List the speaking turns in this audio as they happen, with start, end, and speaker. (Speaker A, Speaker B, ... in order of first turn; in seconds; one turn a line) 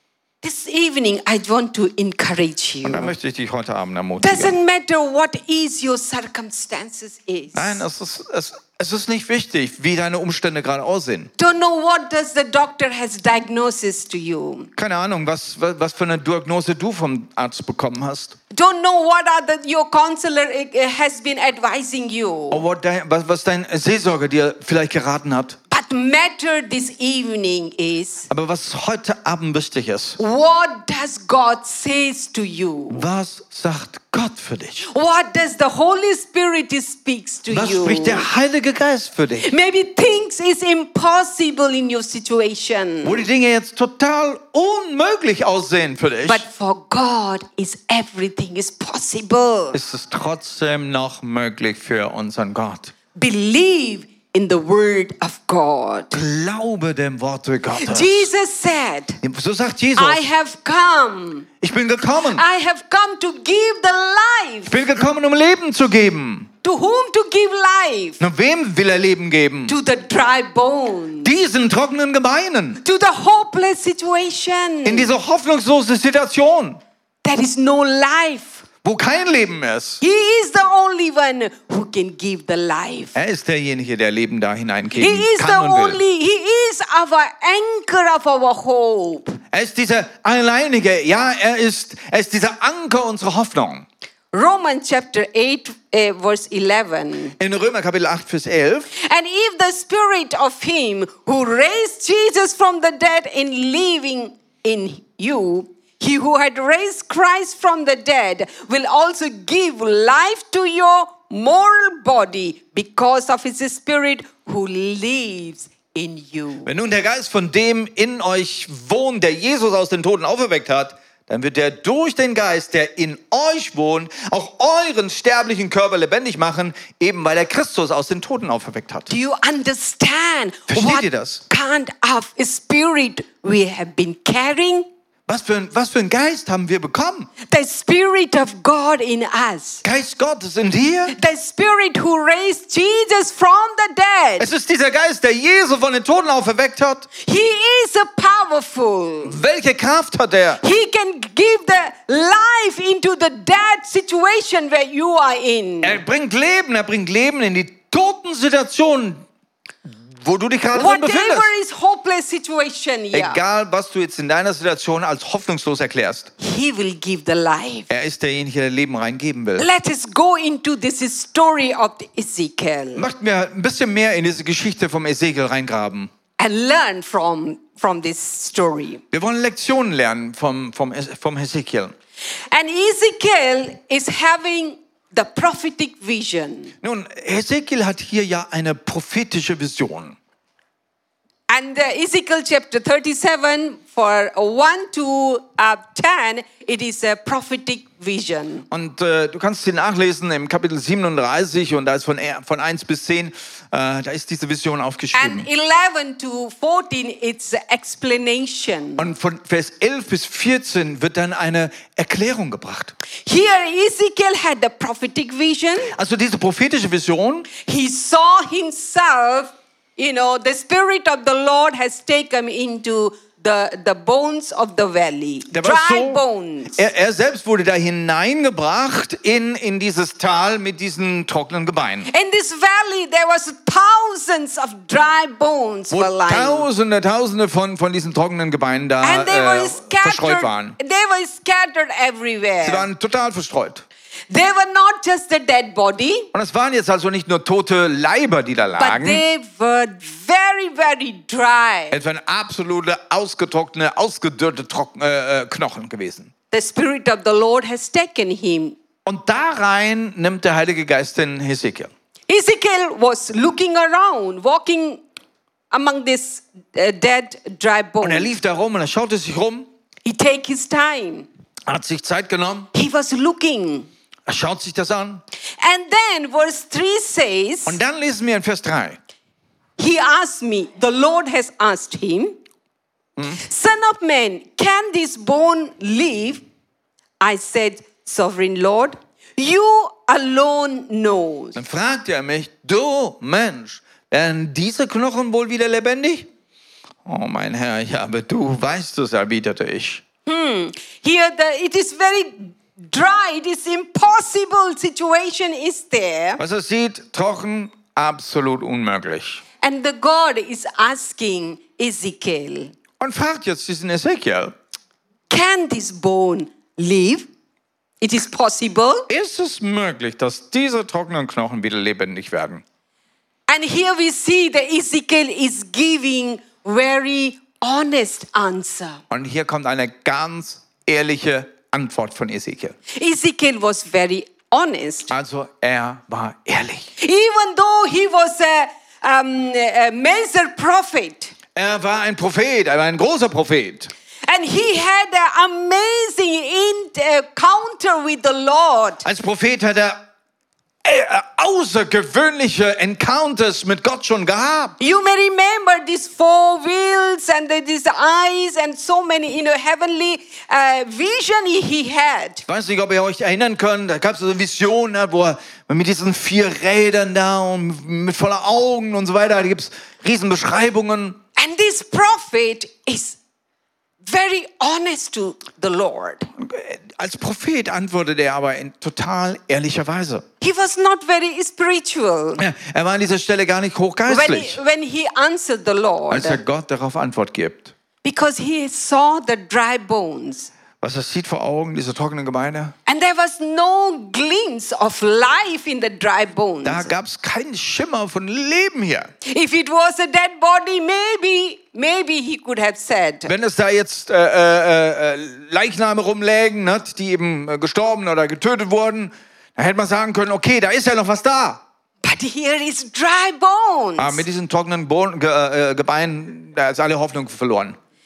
Speaker A: 0.4-3.1
Speaker B: 2.8-4.6
Speaker A: 4.2-7.8
Speaker B: 7.5-11.3
Speaker A: 11.4-14.7
Speaker B: 14.8-18.4
Speaker A: 18.5-22.6
Speaker B: 22.5-25.6
Speaker A: 25.7-28.3
Speaker B: 28.3-30.2
Speaker A: 30.2-33.1
Speaker B: 32.9-34.9
Speaker A: 34.9-38.3
Speaker B: 37.5-39.5
Speaker A: 39.4-43.2
Speaker B: 43.0-46.4
Speaker A: 46.3-49.8
Speaker B: 49.7-52.9
Speaker A: 53.1-56.2
Speaker B: 56.1-58.3
Speaker A: 57.8-59.2
Speaker B: 59.2-60.3
Speaker A: 60.0-61.5
Speaker B: 61.6-62.4
Speaker A: 62.3-64.8
Speaker B: 64.7-66.5
Speaker A: 66.6-68.2
Speaker B: 68.2-69.8
Speaker A: 69.7-71.3
Speaker B: 71.2-72.8
Speaker A: 72.8-75.1
Speaker B: 74.8-76.8
Speaker A: 77.2-78.7
Speaker B: 78.8-80.0
Speaker A: 80.0-83.2
Speaker B: 83.2-86.0
Speaker A: 85.0-89.4
Speaker B: 89.5-93.8
Speaker A: 94.3-97.3
Speaker B: 97.4-98.9
Speaker A: 98.9-116.7
Speaker B: 116.7-129.1
Speaker A: 129.1-134.9
Speaker B: 130.7-131.4
Speaker B: 135.3-137.3
Speaker A: 137.5-139.8
Speaker B: 139.8-141.2
Speaker A: 141.1-144.5
Speaker B: 144.4-147.1
Speaker A: 147.2-149.4
Speaker B: 149.2-150.6
Speaker A: 150.6-156.0
Speaker B: 155.8-159.2
Speaker B: 160.2-161.5
Speaker A: 160.7-163.4
Speaker B: 163.1-166.3
Speaker A: 166.4-167.9
Speaker B: 167.9-169.7
Speaker A: 169.6-173.1
Speaker B: 173.0-176.1
Speaker A: 176.4-179.0
Speaker B: 179.1-181.9
Speaker A: 182.5-186.7
Speaker B: 186.8-190.2
Speaker A: 191.5-198.7
Speaker B: 198.7-205.5
Speaker A: 205.1-209.1
Speaker B: 209.0-212.9
Speaker A: 213.2-215.9
Speaker B: 215.9-217.5
Speaker A: 217.6-226.8
Speaker B: 225.5-232.1
Speaker A: 232.1-236.7
Speaker B: 235.9-240.8
Speaker A: 239.0-242.9
Speaker B: 242.6-243.8
Speaker A: 244.3-246.3
Speaker B: 246.3-249.2
Speaker A: 248.8-252.0
Speaker B: 251.9-256.3
Speaker A: 256.5-258.8
Speaker B: 259.1-261.9
Speaker A: 262.3-265.0
Speaker A: 265.7-268.3
Speaker B: 268.0-269.7
Speaker A: 270.1-271.3
Speaker B: 271.7-272.7
Speaker A: 272.7-273.9
Speaker B: 274.3-275.2
Speaker A: 275.6-277.8
Speaker B: 277.7-279.0
Speaker A: 279.8-282.4
Speaker A: 283.4-286.4
Speaker A: 287.2-291.6
Speaker B: 291.6-296.3
Speaker B: 297.1-300.0
Speaker A: 300.3-306.4
Speaker B: 306.4-309.4
Speaker A: 309.6-312.7
Speaker B: 313.0-314.5
Speaker A: 315.3-317.3
Speaker A: 318.0-319.1
Speaker B: 319.1-322.6
Speaker A: 323.5-329.0
Speaker B: 329.1-332.8
Speaker A: 332.9-335.1
Speaker B: 335.1-336.9
Speaker A: 337.0-341.3
Speaker B: 341.6-343.9
Speaker A: 344.3-349.1
Speaker B: 349.1-350.0
Speaker B: 350.8-354.8
Speaker A: 354.8-362.4
Speaker B: 362.5-371.2
Speaker A: 371.4-373.2
Speaker A: 374.0-376.3
Speaker B: 376.4-380.2
Speaker A: 380.4-382.4
Speaker B: 382.4-384.6
Speaker A: 384.1-386.4
Speaker B: 386.1-387.7
Speaker A: 388.0-390.5
Speaker B: 390.8-392.7
Speaker A: 392.9-396.9
Speaker B: 396.6-399.1
Speaker A: 399.2-403.3
Speaker B: 403.3-411.6
Speaker A: 412.0-414.2
Speaker B: 414.0-417.8